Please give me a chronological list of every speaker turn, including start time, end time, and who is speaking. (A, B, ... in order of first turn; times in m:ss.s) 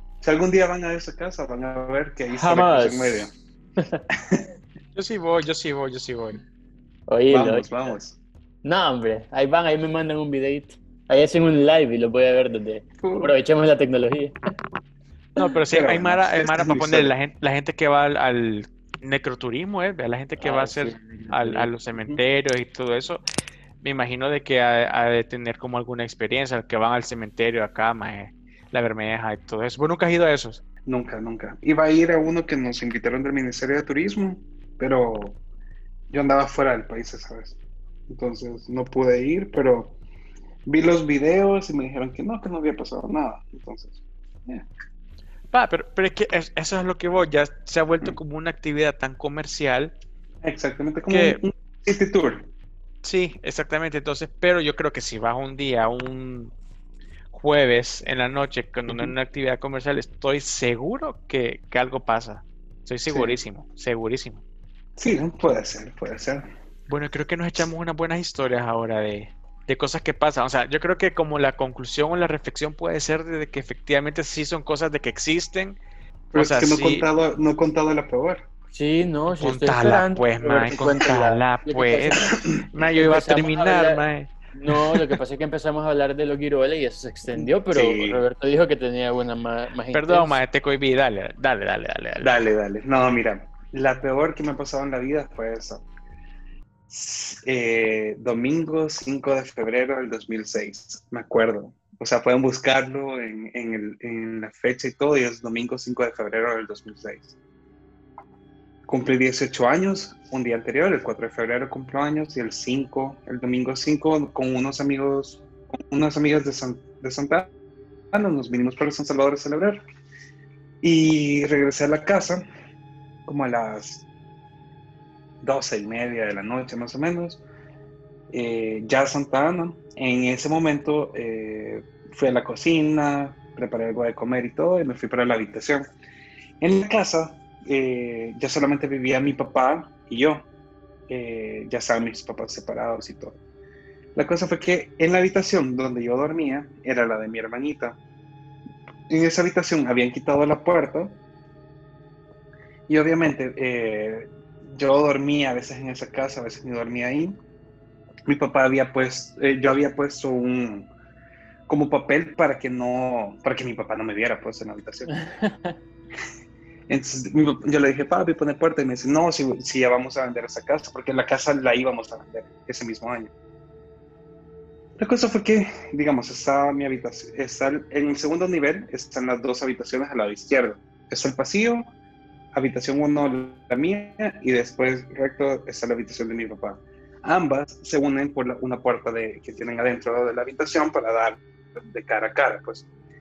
0:00.2-0:03.3 A
0:02.3-0:04.0 B
0:04.9-0:06.4 C
0:07.1-0:07.7 B
0:07.3-0:08.2 A
0:08.6-0:14.3 B
0:13.0-0:13.3 A
0:15.4-0:23.2 C
0:15.7-0:17.1 A
0:20.4-0:21.7 B
0:21.9-0:22.2 A
0:23.8-0:30.6 C
0:30.8-0:35.4 A
0:36.1-0:37.6 A
0:38.1-0:40.0 A
0:40.6-0:44.6 A
0:45.5-0:49.9 C
0:50.4-0:52.5 A
0:51.1-0:51.4 C
0:53.0-0:56.5 C
0:57.3-1:04.4 C
0:58.9-0:59.1 A
1:03.1-1:03.4 A
1:05.0-1:06.5 A
1:06.9-1:15.8 C
1:16.3-1:18.4 A
1:16.3-1:17.1 C
1:18.7-1:22.3 B
1:19.4-1:25.1 C
1:23.0-1:30.4 B
1:27.3-1:28.2 A
1:29.9-1:32.3 C
1:32.2-1:35.9 A
1:36.9-1:47.4 A
1:48.9-1:57.5 A
1:58.1-1:59.8 A
2:00.8-2:02.4 A
2:03.2-2:04.0 A
2:05.4-2:07.4 A
2:08.3-2:15.9 A
2:16.6-2:20.5 A
2:21.1-2:23.4 A
2:24.1-2:28.0 A
2:29.1-2:31.2 A
2:32.9-2:37.4 A
2:38.3-2:40.9 A
2:41.7-2:45.1 A
2:45.1-2:45.8 B
2:46.9-2:53.3 A
2:55.0-3:01.9 A
3:02.5-3:12.9 A